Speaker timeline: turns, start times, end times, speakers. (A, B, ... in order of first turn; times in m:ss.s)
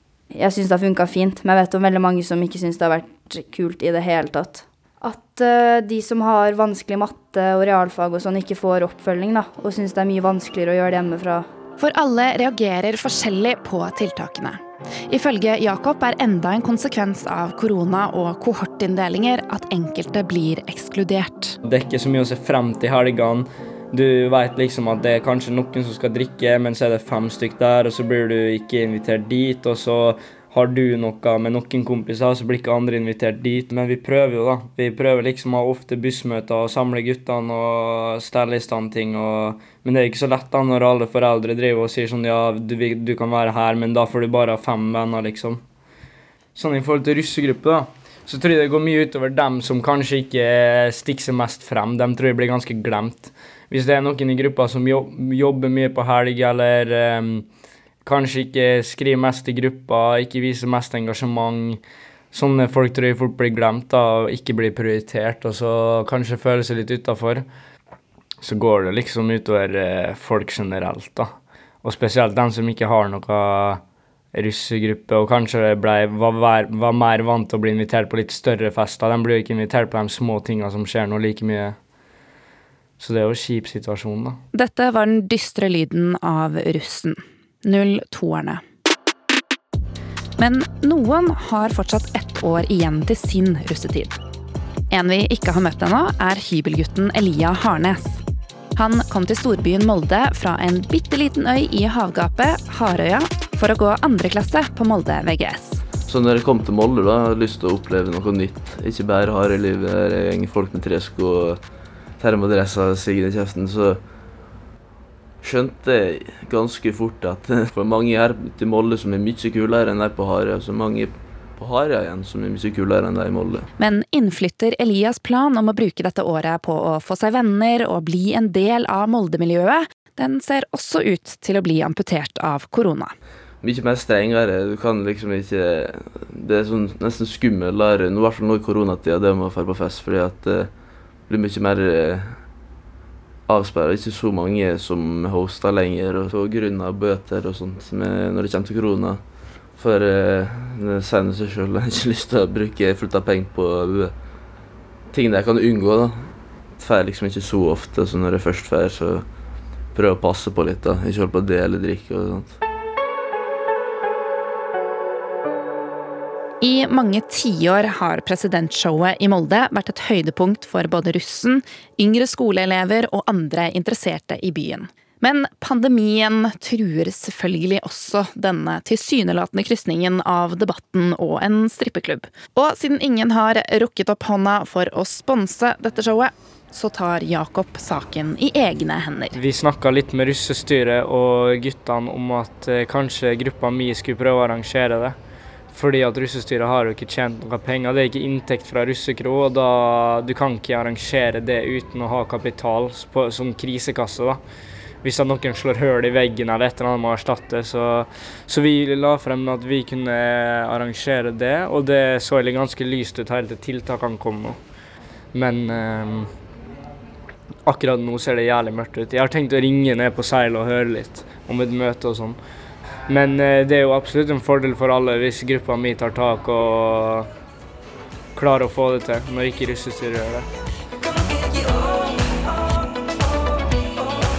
0:00.4-0:11.4 A
0:11.8-0:21.6 B
0:21.6-0:45.6 C
0:46.6-0:57.5 C
0:58.0-1:01.8 C
1:02.3-1:07.5 C
1:08.4-1:11.3 C
1:11.8-1:13.8 C
1:14.3-1:21.8 C
1:23.0-1:24.4 C
1:24.5-1:28.6 B
1:30.4-1:34.2 B
1:34.9-1:38.2 B
1:38.8-1:45.8 B
1:46.1-1:51.6 D
1:52.2-1:54.0 D
1:55.4-2:03.7 D
2:03.8-2:13.1 B
2:13.6-2:22.4 D
2:23.5-2:34.2 D
2:35.1-2:39.3 D
2:39.9-2:42.6 D
2:46.6-3:09.4 B
3:09.4-3:15.2 C
3:15.7-3:24.4 C
3:25.0-3:34.6 C
3:35.3-3:36.3 C
3:37.6-3:42.4 C
3:43.1-3:47.3 C
3:48.4-3:50.5 C